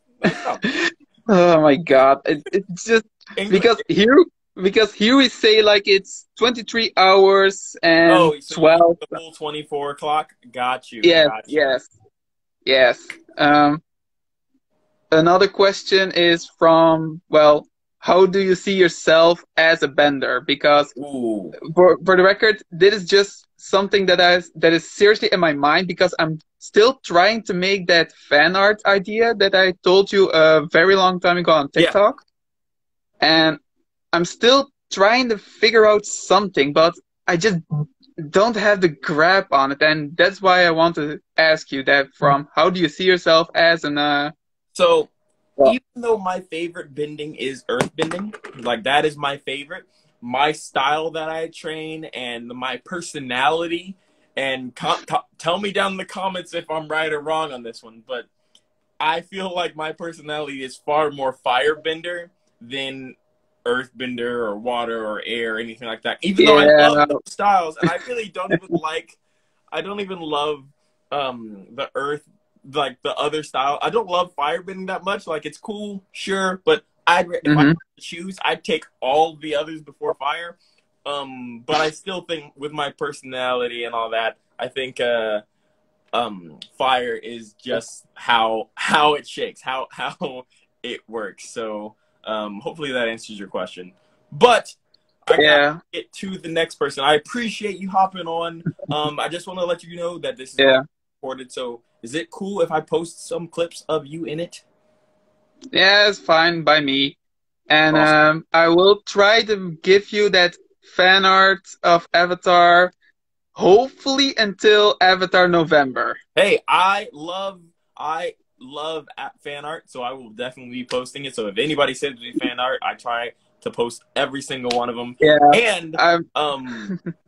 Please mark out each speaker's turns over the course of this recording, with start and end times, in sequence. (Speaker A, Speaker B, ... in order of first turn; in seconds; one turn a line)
Speaker A: 0.2-0.6
Speaker B: 0.6-9.1
Speaker A: 3.4-3.8
Speaker A: 8.1-11.7
Speaker B: 11.0-11.9
Speaker B: 12.7-13.8
Speaker B: 15.1-20.9
Speaker A: 20.9-21.6
Speaker B: 21.6-32.2
Speaker B: 33.2-33.6
Speaker B: 34.1-37.6
Speaker B: 38.2-44.3
Speaker A: 44.7-45.1
Speaker A: 45.6-58.3
Speaker A: 59.0-69.2
Speaker B: 66.4-67.2
Speaker A: 69.7-85.4
Speaker B: 77.4-77.8
Speaker A: 86.1-104.6
Speaker B: 95.3-95.8
Speaker B: 105.7-107.2
Speaker B: 107.7-112.9
Speaker B: 113.5-116.2
Speaker A: 116.3-126.9
Speaker B: 125.2-126.3